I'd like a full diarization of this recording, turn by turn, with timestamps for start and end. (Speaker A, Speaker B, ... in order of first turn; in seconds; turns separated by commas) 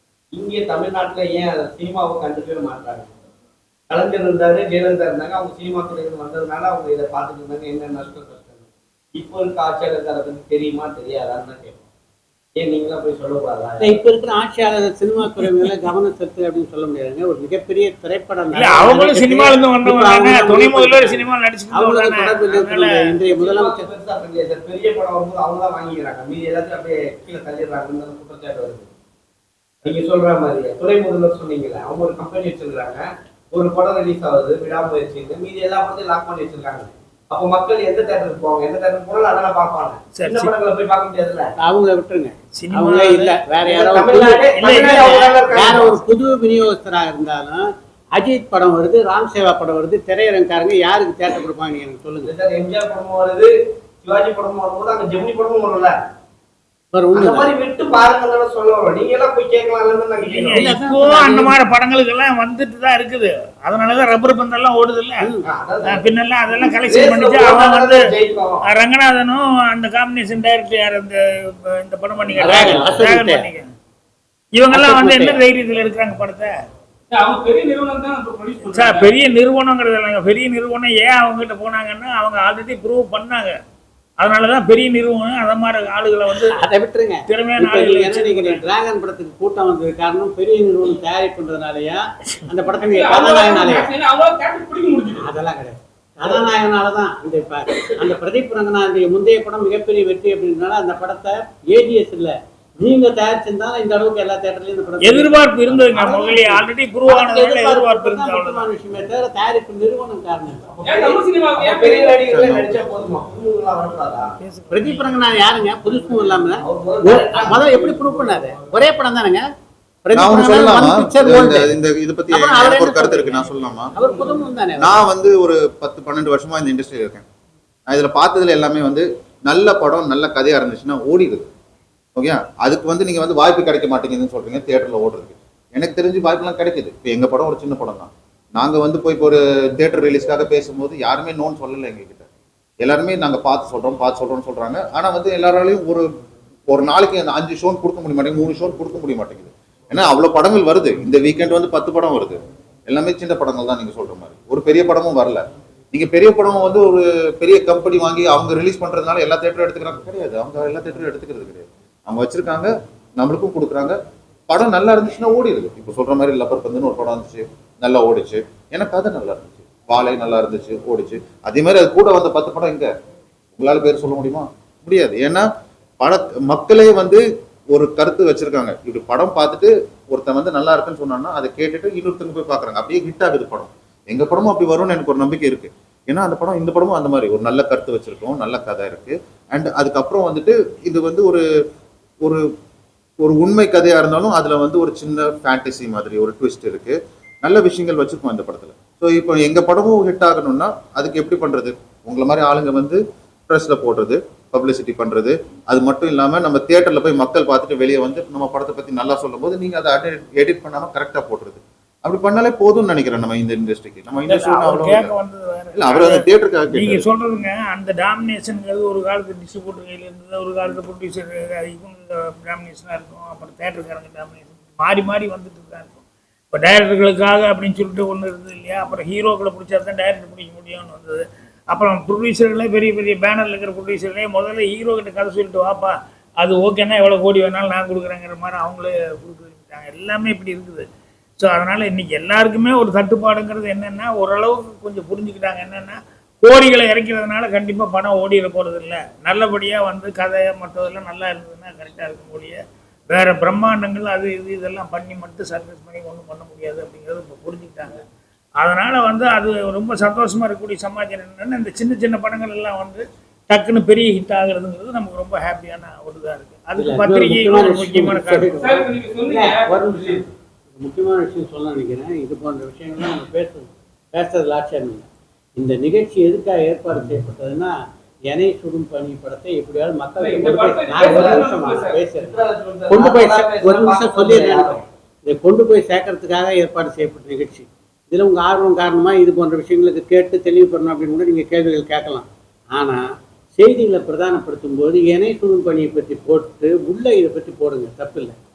Speaker A: 0.3-3.1, Speaker A: 3.9-11.8, Speaker A: 12.6-14.0, Speaker B: 13.8-23.8, Speaker C: 18.5-23.2, Speaker A: 23.4-28.9, Speaker A: 29.8-41.5, Speaker C: 40.1-40.5, Speaker B: 41.6-52.3, Speaker C: 42.6-43.4, Speaker A: 43.7-45.9, Speaker C: 44.1-45.5, Speaker A: 52.3-56.0, Speaker B: 56.9-57.5, Speaker A: 57.3-60.5, Speaker C: 60.2-73.7, Speaker B: 60.5-61.5, Speaker A: 65.4-66.0, Speaker A: 66.9-68.6, Speaker B: 72.4-73.5, Speaker C: 74.5-76.5, Speaker B: 74.7-75.4, Speaker D: 77.1-79.2, Speaker C: 78.6-83.5, Speaker C: 84.2-86.6, Speaker B: 86.3-93.9, Speaker C: 87.3-88.6, Speaker D: 92.9-95.3, Speaker B: 95.2-110.8, Speaker C: 105.0-108.7, Speaker D: 110.8-112.2, Speaker A: 110.9-114.3, Speaker E: 112.3-112.7, Speaker C: 114.4-115.2, Speaker B: 114.7-119.5, Speaker A: 116.6-117.9, Speaker B: 120.0-121.8, Speaker E: 120.1-123.9, Speaker B: 122.3-125.1, Speaker E: 124.8-127.2, Speaker E: 127.9-131.4, Speaker E: 132.2-142.2, Speaker E: 142.8-146.1, Speaker E: 146.7-164.0, Speaker E: 164.5-172.9, Speaker E: 173.6-175.4, Speaker E: 176.0-177.2, Speaker E: 177.7-191.4, Speaker E: 193.2-215.1, Speaker C: 214.2-240.8, Speaker E: 215.8-217.0, Speaker C: 241.4-258.0, Speaker C: 258.6-268.6, Speaker B: 266.8-275.0, Speaker D: 268.6-270.2, Speaker B: 275.6-277.7, Speaker B: 278.3-293.0, Speaker D: 280.2-281.9, Speaker A: 281.2-284.8, Speaker B: 293.6-298.3